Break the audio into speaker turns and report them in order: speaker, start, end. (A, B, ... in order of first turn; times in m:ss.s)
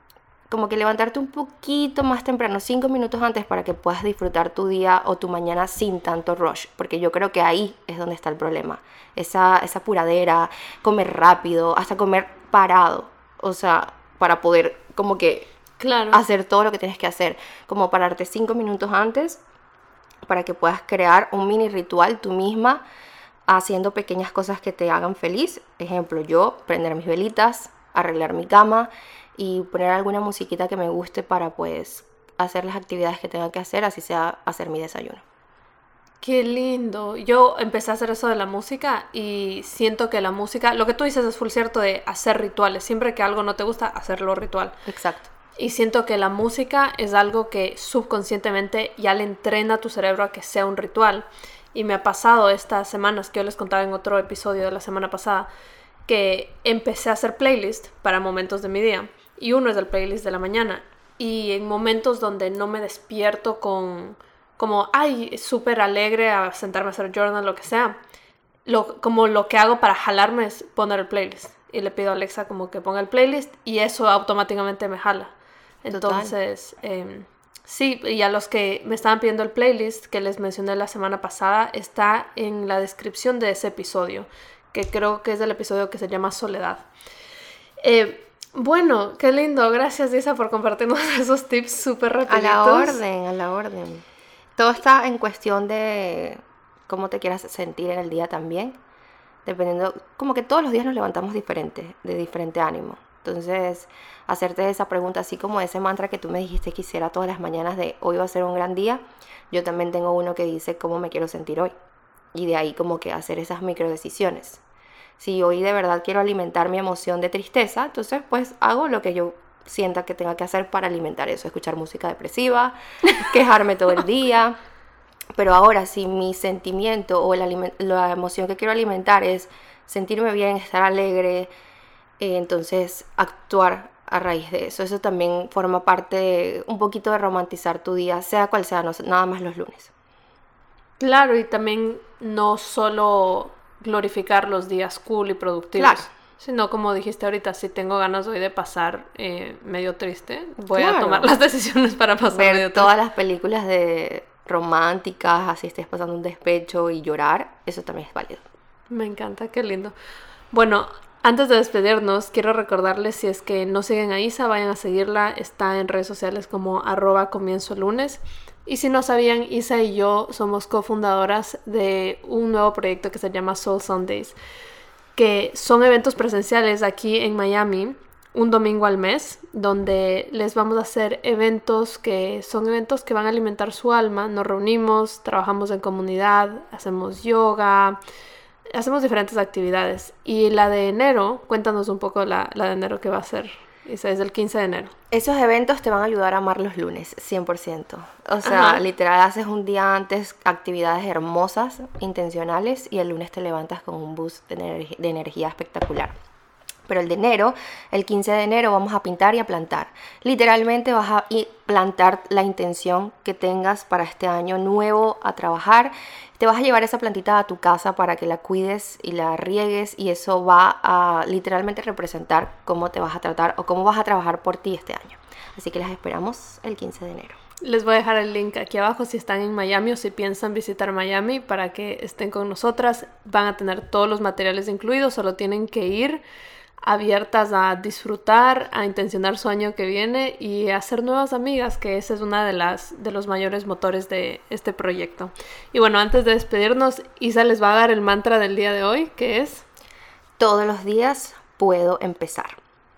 0:00.5-0:15.5 A
0:15.8-0:16.2 B
0:16.1-0:19.4 A
0:20.3-0:22.8 A
0:23.5-0:35.2 A
0:36.2-0:44.8 B
0:44.9-0:45.3 A
0:45.6-0:55.5 B
0:56.1-1:08.0 B
1:08.7-1:15.3 B
1:15.8-1:26.9 B
1:15.9-1:16.3 A
1:27.8-1:33.0 B
1:32.3-1:34.0 A
1:34.6-1:38.8 A
1:39.4-1:51.7 A
1:52.3-1:54.6 A
1:55.2-2:04.6 A
2:05.4-2:11.5 A
2:12.2-2:19.9 A
2:21.0-2:32.9 B
2:25.8-2:26.1 A
2:30.6-2:31.3 A
2:32.3-2:38.4 A
2:38.9-2:40.0 B
2:40.5-2:54.4 B
2:55.2-3:08.0 B
3:08.7-3:14.9 B
3:15.1-3:26.2 A
3:18.4-3:18.8 B
3:26.9-3:47.4 A
3:47.6-3:56.2 B
3:56.8-4:09.6 B
4:10.4-4:12.6 A